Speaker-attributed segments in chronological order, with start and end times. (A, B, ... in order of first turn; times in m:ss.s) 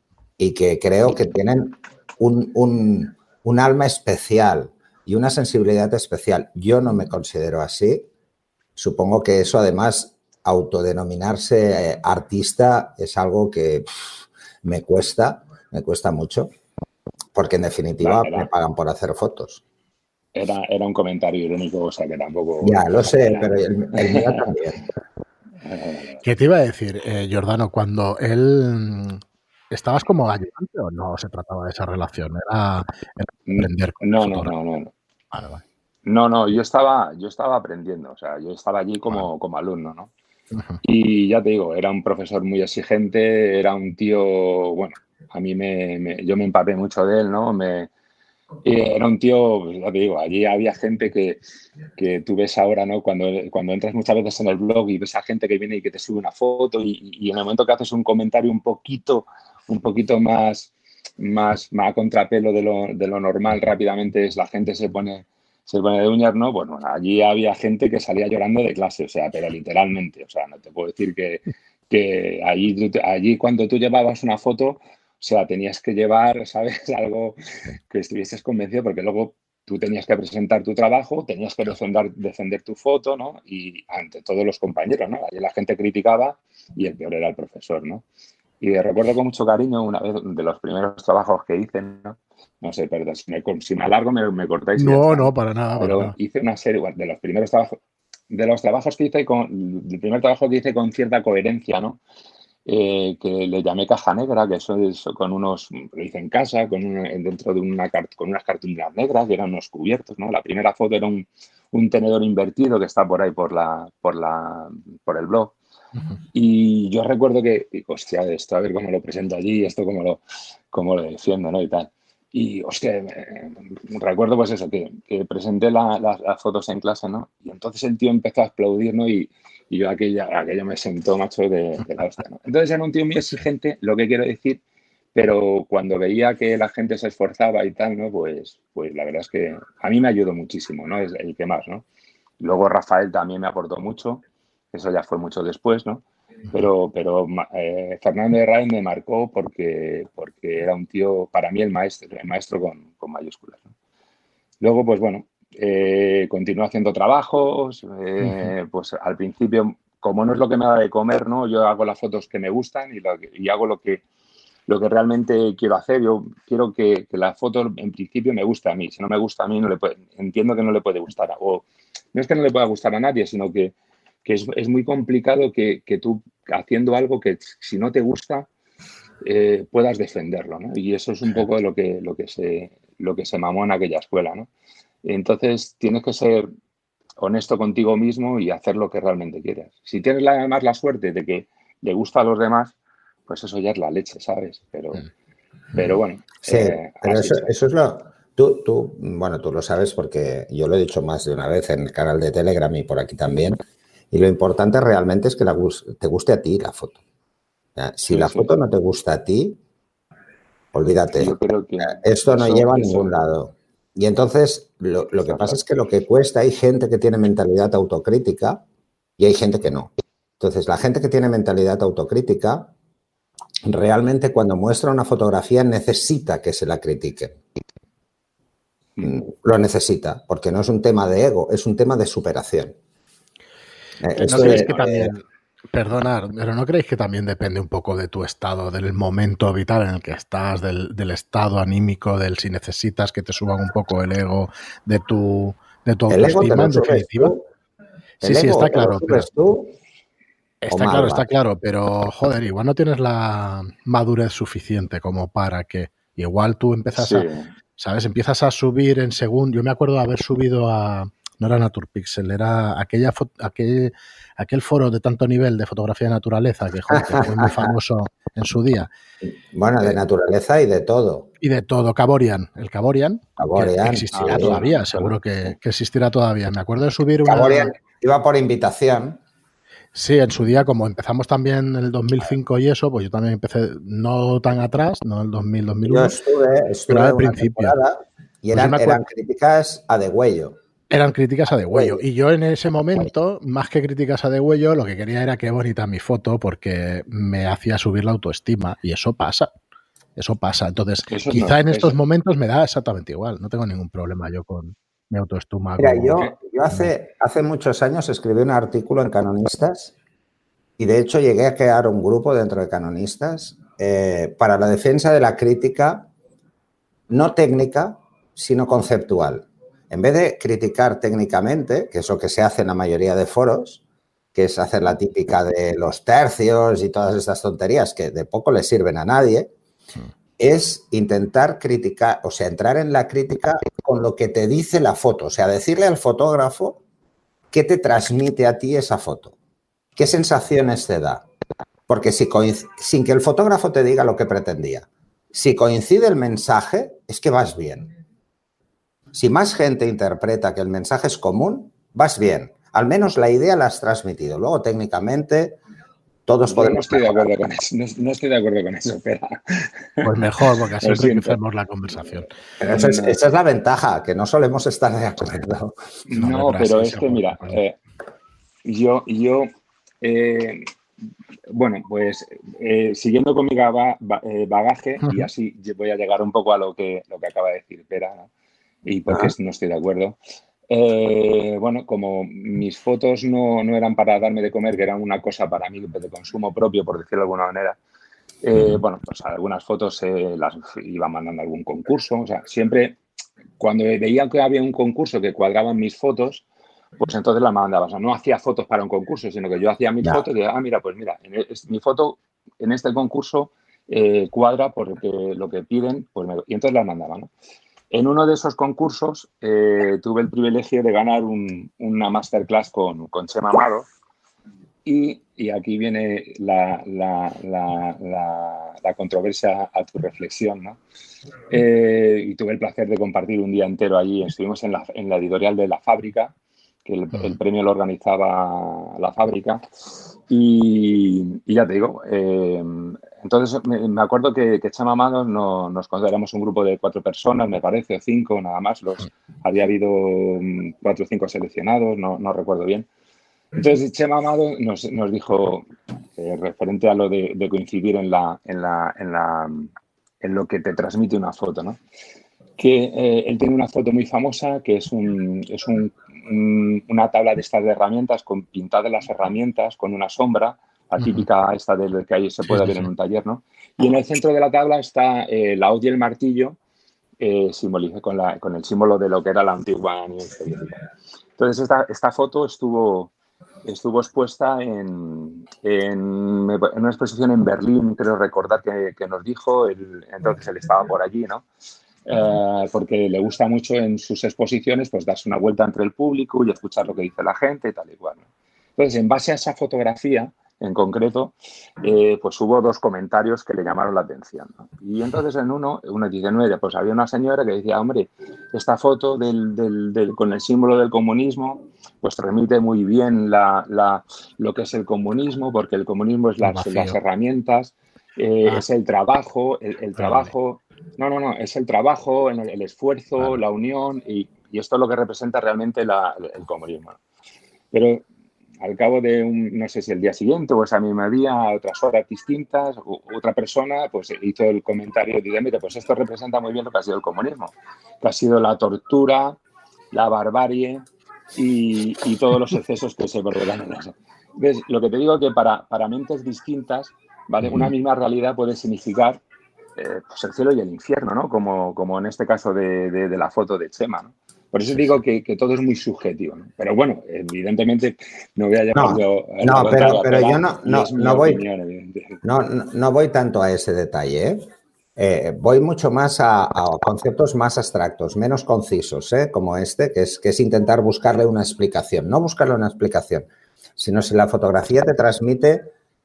0:00.4-0:08.1 A
0:08.8-0:16.5 A
0:17.3-0:19.6 A
0:18.0-0:18.5 B
0:20.3-0:24.5 B
0:22.6-0:24.8 A
0:25.6-0:26.2 B
0:26.2-0:34.5 C
0:33.5-0:34.9 B
0:35.3-0:35.6 C
0:36.0-0:40.1 B
0:40.5-0:40.8 C
0:40.8-0:47.9 B
0:48.6-0:51.4 B
0:52.0-1:28.0 B
1:28.6-1:37.8 B
1:34.8-1:36.1 C
1:38.3-1:42.0 B
1:42.6-1:55.6 B
1:56.3-2:14.6 B
2:15.1-2:21.8 B
2:22.4-2:33.7 B
2:34.6-2:44.0 B
2:38.2-2:38.5 C
2:44.7-2:58.5 B
2:59.2-3:04.5 B
3:05.0-3:06.5 B
3:07.2-3:12.7 B
3:13.3-3:15.1 B
3:15.7-3:17.5 B
3:16.4-3:23.6 A
3:24.1-3:27.0 A
3:27.8-3:29.6 A
3:28.0-3:28.5 B
3:30.7-3:31.3 A
3:31.2-3:33.2 B
3:31.8-3:38.6 A
3:39.2-3:42.7 A
3:43.6-3:47.4 A
3:49.0-3:52.7 A
3:54.0-3:55.1 A
3:54.2-3:55.2 C
3:55.7-4:07.4 C
4:06.1-4:07.5 A
4:08.2-4:09.7 A
4:08.2-4:09.3 C
4:10.6-4:17.2 C
4:10.7-4:11.3 A
4:16.9-4:17.5 B
4:17.8-4:28.9 C
4:26.9-4:27.7 A
4:29.5-4:31.3 A
4:31.4-4:37.7 C
4:33.4-4:34.6 A
4:34.1-4:35.0 B
4:37.2-4:39.2 A
4:39.9-4:46.1 C
4:45.9-4:50.6 A
4:46.9-4:47.8 C
4:48.5-4:49.0 C
4:50.9-4:59.5 C
4:51.7-4:52.0 A
5:00.2-5:06.9 C
5:01.1-5:02.0 B
5:05.8-5:09.9 A
5:10.8-5:16.1 A
5:17.1-5:23.8 A
5:24.3-5:29.5 A
5:30.4-5:36.8 A
5:37.5-5:39.3 A
5:40.0-5:41.2 A
5:41.9-5:47.9 A
5:49.1-5:55.6 A
5:56.3-5:57.3 A
5:56.4-6:00.1 B
6:00.0-6:02.3 C
6:00.8-6:01.4 B
6:02.6-6:05.8 A
6:02.6-6:03.2 B
6:06.1-6:07.8 B
6:06.1-6:07.6 C
6:08.6-6:09.5 B
6:10.0-6:10.7 B
6:11.5-6:18.3 B
6:18.8-6:20.2 B
6:19.1-6:19.3 A
6:20.7-6:27.8 B
6:28.4-6:33.0 B
6:33.6-6:36.4 B
6:37.0-6:47.3 B
6:47.9-6:53.9 B
6:54.8-7:00.8 B
7:01.5-7:06.3 B
7:06.8-7:09.6 B
7:10.3-7:22.9 B
7:23.5-7:25.6 B
7:26.2-7:31.8 B
7:32.6-7:46.6 B
7:41.0-7:41.2 C
7:42.5-7:42.9 C
7:47.2-7:50.8 B
7:51.4-7:53.1 B
7:53.6-8:01.4 B
8:02.0-8:08.2 B
8:08.8-8:37.0 B
8:26.4-8:27.0 C
8:30.0-8:30.3 C
8:37.7-8:38.0 B
8:38.6-8:49.4 B
8:49.9-8:59.2 B
8:57.4-8:57.7 C
8:59.8-9:12.2 B
9:08.7-9:11.4 A
9:12.2-9:14.4 A
9:15.0-9:25.7 A